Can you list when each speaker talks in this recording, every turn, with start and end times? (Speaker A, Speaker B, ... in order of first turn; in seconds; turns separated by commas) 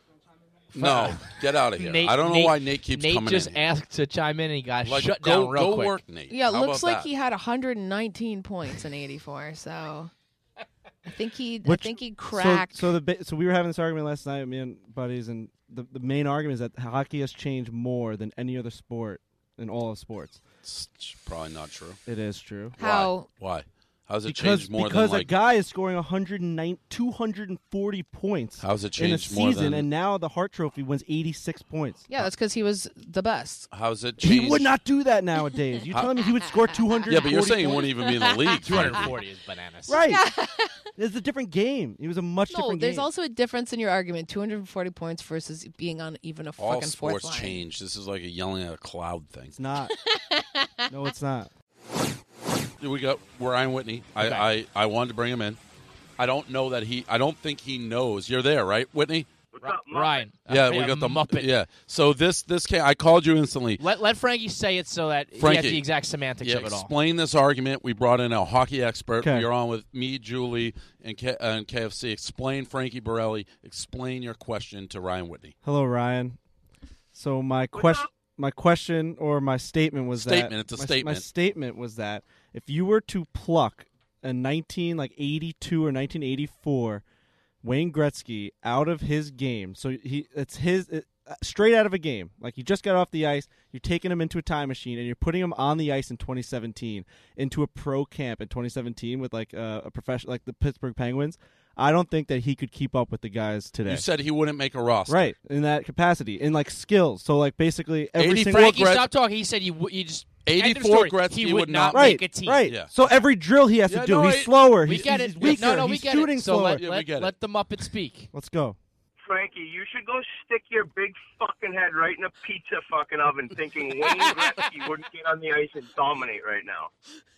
Speaker A: 0.7-3.7, Speaker B: 0.7-1.2, Speaker B: 1.8-6.0, Speaker A: 4.8-7.1, Speaker C: 6.3-10.1, Speaker C: 11.0-13.0, Speaker D: 11.6-20.4, Speaker A: 20.6-22.0, Speaker D: 22.1-22.8, Speaker A: 22.8-25.4, Speaker C: 22.8-23.3, Speaker D: 24.2-32.3, Speaker A: 28.6-29.9, Speaker C: 32.1-33.7, Speaker A: 33.7-34.7, Speaker D: 34.2-37.9, Speaker A: 37.1-39.2, Speaker C: 38.0-38.8, Speaker B: 38.6-40.0, Speaker D: 39.9-40.2, Speaker C: 39.9-40.7, Speaker D: 41.0-43.1, Speaker C: 42.5-47.6, Speaker A: 46.6-49.5, Speaker D: 49.5-50.0, Speaker C: 49.9-50.9, Speaker D: 50.9-51.5, Speaker A: 52.8-55.6, Speaker B: 54.2-54.5, Speaker A: 56.2-59.3, Speaker E: 59.5-60.3, Speaker B: 59.6-61.5, Speaker A: 60.5-63.8, Speaker B: 63.8-66.9, Speaker A: 65.4-65.9, Speaker A: 66.4-75.5, Speaker D: 69.2-69.5, Speaker D: 75.6-76.4, Speaker D: 77.1-87.0, Speaker E: 77.7-78.1, Speaker A: 80.1-81.2, Speaker D: 87.6-104.0, Speaker A: 103.8-105.3, Speaker D: 105.1-108.9, Speaker A: 108.2-109.0, Speaker B: 108.5-113.1, Speaker A: 110.5-112.9, Speaker D: 111.9-116.8, Speaker A: 113.9-114.7, Speaker B: 114.8-118.3, Speaker A: 116.7-117.3, Speaker D: 118.3-118.8, Speaker E: 119.2-126.9, Speaker B: 124.1-124.5